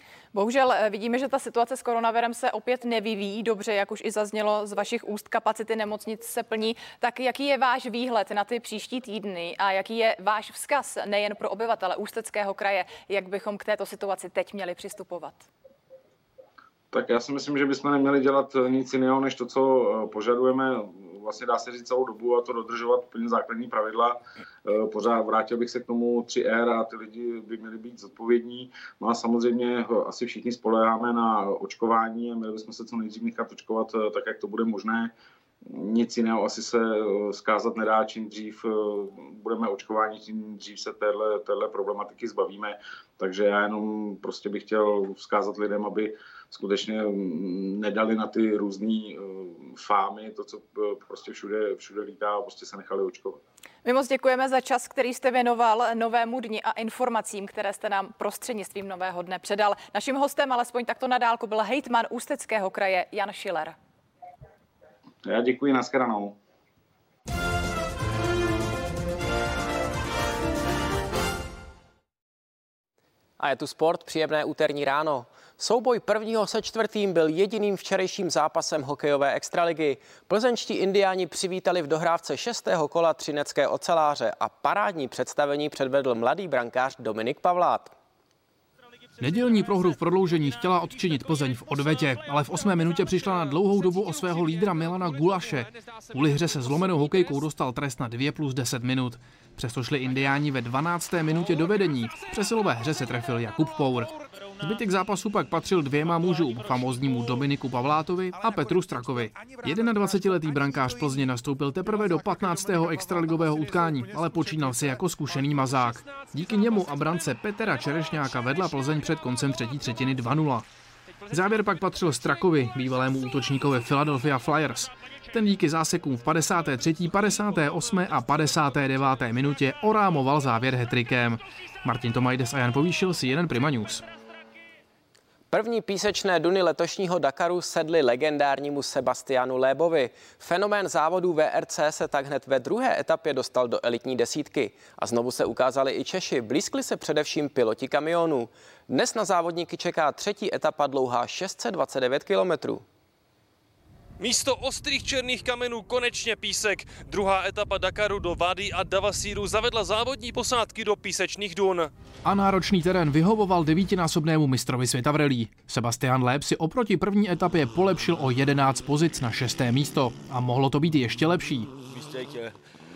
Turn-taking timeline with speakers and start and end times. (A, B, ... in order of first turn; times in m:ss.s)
0:00.3-0:15.5 A
0:16.9-0:35.1 B
0:35.7-0:53.4 B
0:53.8-1:03.8 A
1:05.2-1:06.4 B
1:13.4-1:27.9 C
1:29.2-2:00.7 D
2:01.3-2:14.0 D
2:15.5-2:32.8 C
2:34.2-2:41.9 E
2:42.2-2:51.7 D
2:51.9-2:52.5 E